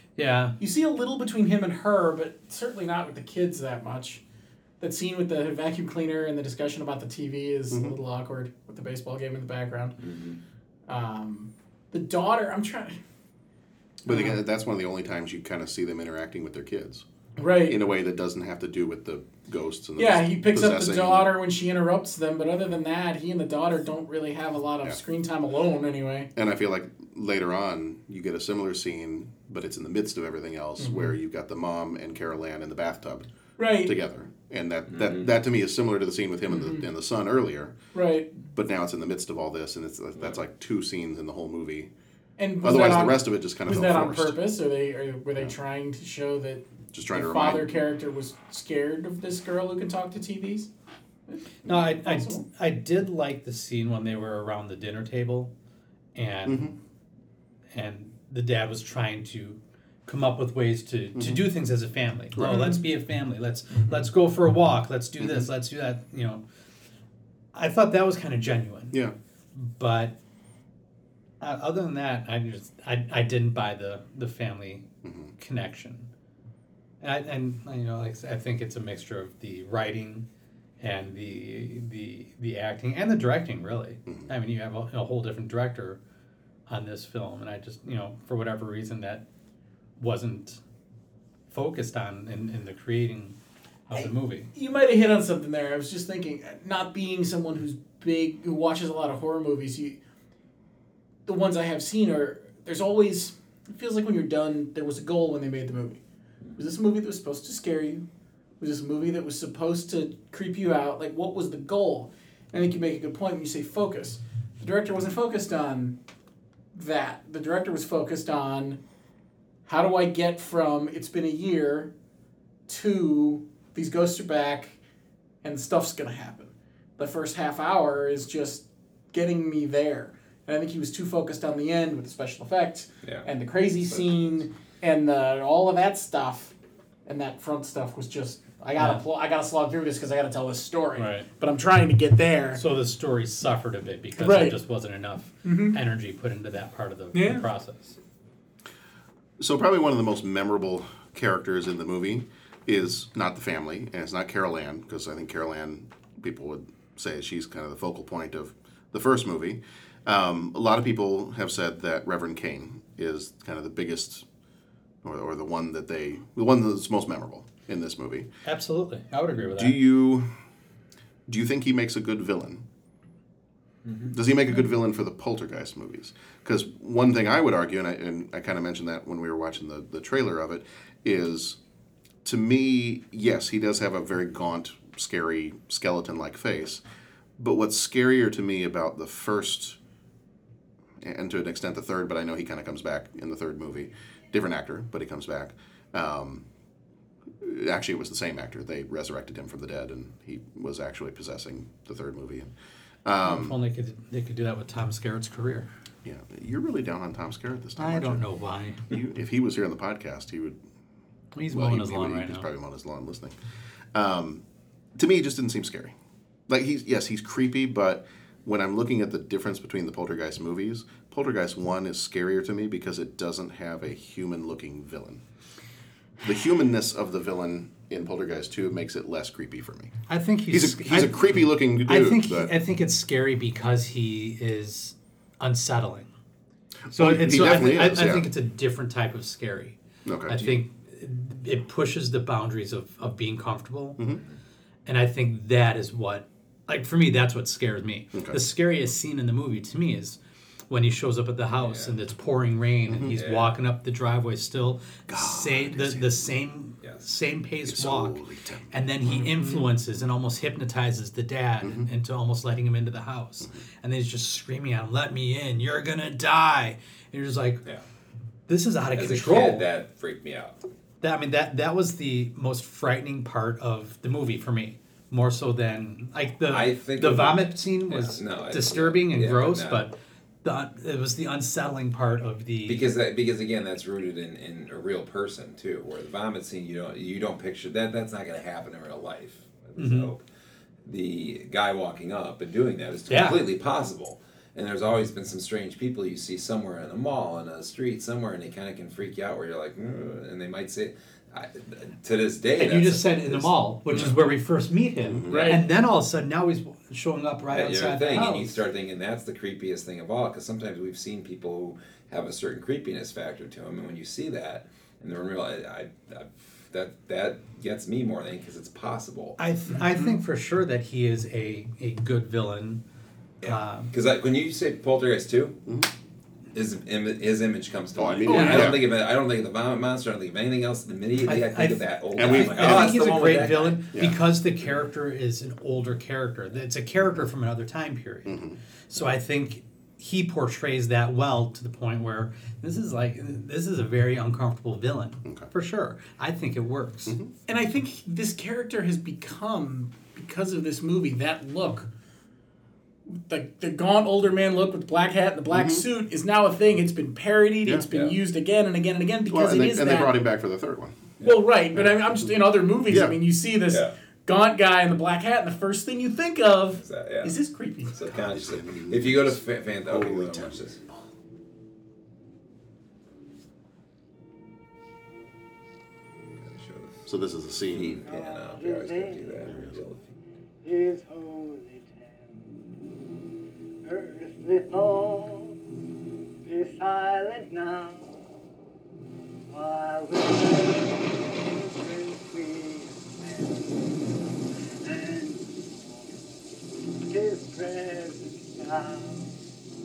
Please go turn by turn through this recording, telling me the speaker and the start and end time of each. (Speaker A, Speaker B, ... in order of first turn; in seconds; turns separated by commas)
Speaker A: 0.2-0.6, Speaker B: 0.6-4.2, Speaker B: 4.8-10.0, Speaker C: 7.7-8.0, Speaker D: 10.0-10.4, Speaker B: 10.9-13.0, Speaker C: 14.0-21.3, Speaker B: 14.1-14.4, Speaker B: 17.4-17.8, Speaker B: 20.0-26.3, Speaker C: 26.4-37.8, Speaker B: 30.8-31.1, Speaker B: 33.6-33.9, Speaker D: 34.9-35.3, Speaker B: 36.5-36.9, Speaker B: 38.0-38.3, Speaker C: 38.5-41.9, Speaker B: 42.4-50.7, Speaker C: 42.6-44.4, Speaker C: 46.9-47.8, Speaker B: 51.3-52.4, Speaker A: 51.6-55.5, Speaker A: 56.1-56.7, Speaker C: 56.5-56.8, Speaker A: 57.7-66.4, Speaker C: 61.2-61.4, Speaker C: 62.4-62.6, Speaker B: 62.4-62.8, Speaker A: 67.5-69.0, Speaker A: 69.5-70.2, Speaker A: 71.4-74.9, Speaker C: 75.0-75.3, Speaker A: 75.4-76.1, Speaker A: 77.0-80.3, Speaker A: 80.8-86.0, Speaker A: 86.7-89.3, Speaker A: 90.0-90.6, Speaker A: 91.5-93.4, Speaker A: 93.9-94.5, Speaker B: 94.0-100.0, Speaker B: 101.3-106.0, Speaker D: 106.4-106.7, Speaker B: 106.6-108.0, Speaker B: 108.6-116.0, Speaker B: 116.7-118.8, Speaker B: 119.7-121.9, Speaker B: 122.7-124.8, Speaker B: 125.4-136.6, Speaker D: 133.0-133.3, Speaker D: 133.8-134.3, Speaker B: 137.1-142.6, Speaker A: 141.0-141.3, Speaker A: 142.5-148.0, Speaker B: 144.2-144.6, Speaker B: 145.4-145.8, Speaker B: 147.1-147.4, Speaker C: 149.4-164.3, Speaker C: 165.0-168.3, Speaker A: 168.5-169.8, Speaker C: 169.4-170.3, Speaker C: 171.3-172.7, Speaker C: 174.1-181.6, Speaker C: 182.2-186.8, Speaker C: 187.4-189.8, Speaker C: 191.0-196.5, Speaker C: 197.4-202.5, Speaker C: 203.1-203.6, Speaker A: 203.2-205.7, Speaker C: 206.0-208.3, Speaker A: 207.8-208.9, Speaker C: 208.9-210.6, Speaker A: 211.3-212.5, Speaker C: 211.5-213.3, Speaker C: 213.9-214.4, Speaker C: 215.0-215.9, Speaker C: 216.5-225.2, Speaker C: 226.2-232.5, Speaker A: 230.1-236.1, Speaker C: 236.9-238.3, Speaker A: 236.9-239.8, Speaker C: 240.1-240.5, Speaker A: 240.3-244.0, Speaker A: 244.9-250.2, Speaker C: 248.1-248.4, Speaker A: 250.7-267.6, Speaker D: 251.6-252.0, Speaker D: 253.1-253.6, Speaker C: 255.1-256.2, Speaker D: 256.8-257.1, Speaker C: 257.7-258.7, Speaker B: 259.2-259.6, Speaker C: 261.6-261.9, Speaker A: 268.5-269.7, Speaker D: 268.9-270.6, Speaker A: 271.0-282.8, Speaker D: 276.5-279.9, Speaker D: 282.7-290.2, Speaker A: 289.8-290.1, Speaker D: 290.9-304.2, Speaker A: 293.1-293.4, Speaker A: 302.6-308.6, Speaker C: 305.0-305.5, Speaker B: 305.3-305.6, Speaker D: 307.5-319.4, Speaker A: 319.4-322.8, Speaker B: 319.8-320.1, Speaker D: 323.4-325.6, Speaker A: 323.4-323.9, Speaker D: 326.5-333.9, Speaker C: 328.0-328.9, Speaker B: 328.3-328.7, Speaker A: 328.4-328.7, Speaker A: 331.3-338.4, Speaker C: 332.2-333.0, Speaker C: 338.3-338.6, Speaker A: 338.9-347.2, Speaker C: 345.2-345.5, Speaker C: 347.1-347.3, Speaker B: 347.5-351.9, Speaker B: 353.1-360.1, Speaker C: 355.5-355.9, Speaker D: 357.9-358.2, Speaker C: 359.3-361.1, Speaker B: 361.2-368.1, Speaker C: 362.9-363.2, Speaker D: 363.7-363.9, Speaker D: 366.8-367.4, Speaker D: 367.9-370.8, Speaker C: 368.1-370.7, Speaker D: 376.4-377.1, Speaker C: 377.1-378.0, Speaker D: 377.7-380.1, Speaker E: 378.1-379.5, Speaker E: 380.6-382.2, Speaker E: 383.9-385.6, Speaker E: 386.5-388.1, Speaker E: 389.5-393.9, Speaker E: 394.8-396.2, Speaker E: 397.1-399.3